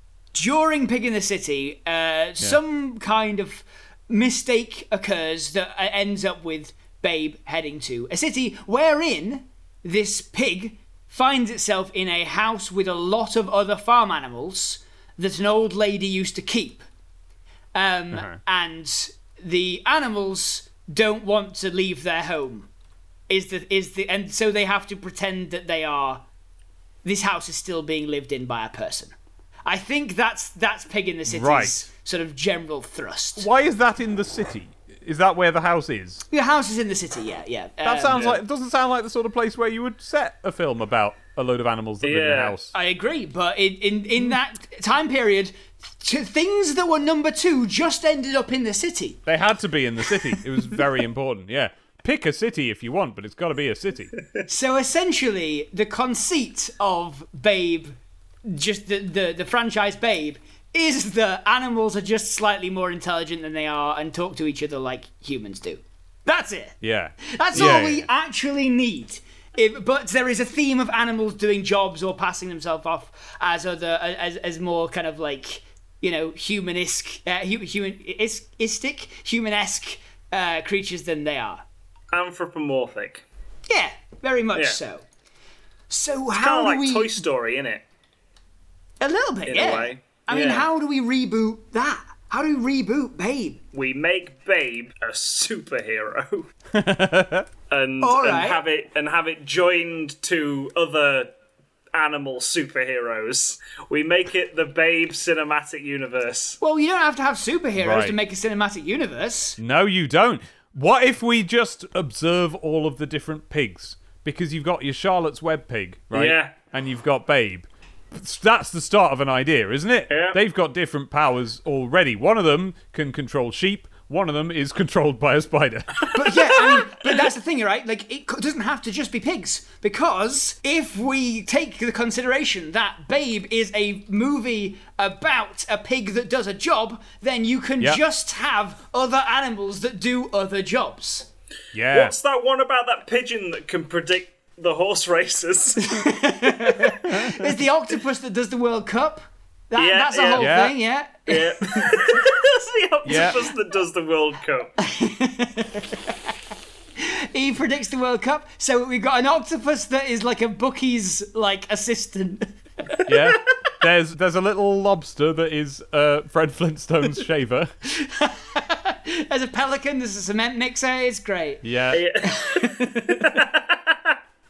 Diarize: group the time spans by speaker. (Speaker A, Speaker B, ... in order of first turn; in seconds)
Speaker A: 0.3-16.9, 17.7-22.7, 23.3-26.2, 27.0-29.1, 29.7-33.5, 36.3-38.2, 42.7-49.2, 54.5-81.6, 83.7-85.0, 85.9-87.2, 89.0-93.6, 98.0-98.6, 106.6-109.6, 126.1-141.3, 145.8-152.2, 154.8-156.2, 157.0-163.1, 167.8-171.6, 172.2-173.4
Speaker B: 18.1-18.4, 31.3-31.9, 33.4-36.2, 37.8-42.7, 49.3-54.1, 66.8-68.1, 96.7-97.5, 107.8-108.2, 109.6-126.7, 141.7-142.1, 147.1-147.4, 150.4-150.8, 153.0-153.4, 163.1-167.7, 171.6-172.1
Speaker C: 42.0-42.5, 82.1-83.2, 86.3-87.8, 89.5-90.7, 93.7-96.5, 97.7-101.3, 101.9-106.6, 116.1-116.5, 120.1-120.4, 141.9-146.1, 149.8-150.6, 151.3-154.8, 171.9-174.1